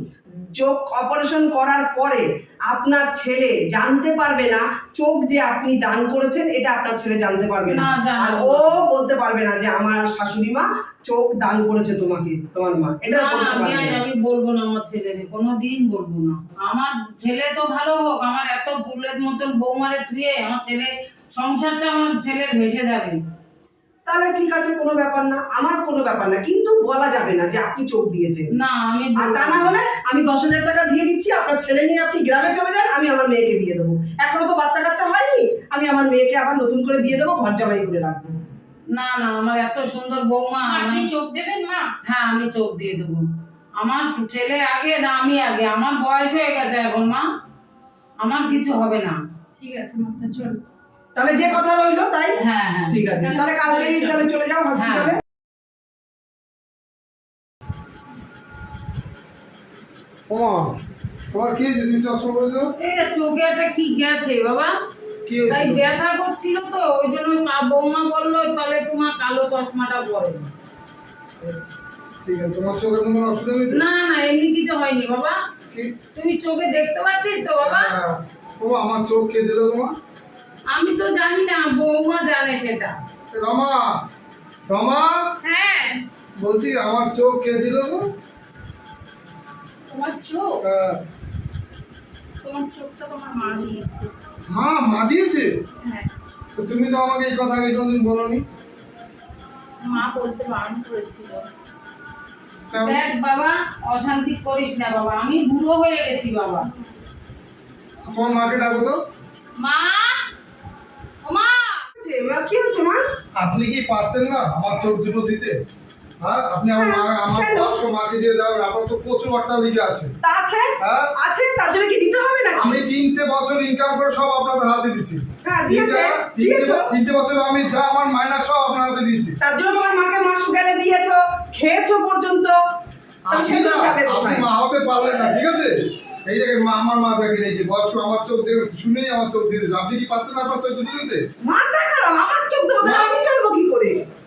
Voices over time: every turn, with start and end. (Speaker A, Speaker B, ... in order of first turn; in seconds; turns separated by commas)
Speaker A: 0.4-14.0, Speaker B: 7.7-8.8, Speaker B: 13.1-23.2, Speaker A: 24.1-28.5, Speaker B: 28.6-29.7, Speaker A: 29.2-38.4, Speaker B: 38.9-41.1, Speaker C: 40.6-41.9, Speaker B: 42.0-43.2, Speaker B: 43.8-47.2, Speaker B: 48.2-49.2, Speaker C: 49.5-50.6, Speaker A: 51.1-55.2, Speaker B: 52.4-53.0, Speaker C: 53.2-54.2, Speaker B: 54.8-55.1, Speaker D: 60.3-60.8, Speaker D: 61.3-62.7, Speaker B: 62.8-64.7, Speaker D: 65.2-65.9, Speaker B: 65.5-70.5, Speaker D: 72.2-73.8, Speaker B: 73.7-75.4, Speaker B: 76.1-77.9, Speaker D: 77.6-79.9, Speaker B: 80.7-82.9, Speaker D: 83.3-84.0, Speaker D: 84.7-85.2, Speaker C: 85.4-86.0, Speaker D: 86.4-88.1, Speaker C: 89.9-90.6, Speaker D: 90.6-91.0, Speaker C: 92.4-94.1, Speaker D: 94.5-95.5, Speaker C: 95.8-96.1, Speaker D: 96.6-98.4, Speaker C: 99.8-101.4, Speaker D: 102.7-103.0, Speaker B: 102.7-106.7, Speaker D: 108.0-109.0, Speaker C: 109.6-110.2, Speaker C: 111.2-111.8, Speaker A: 112.0-113.0, Speaker D: 113.4-115.6, Speaker D: 116.2-120.1, Speaker A: 116.8-117.8, Speaker A: 120.2-122.8, Speaker D: 120.8-121.1, Speaker D: 122.6-129.4, Speaker A: 125.4-126.9, Speaker A: 129.4-132.6, Speaker D: 133.3-141.2, Speaker A: 133.3-134.4, Speaker A: 141.4-143.9, Speaker D: 142.8-143.2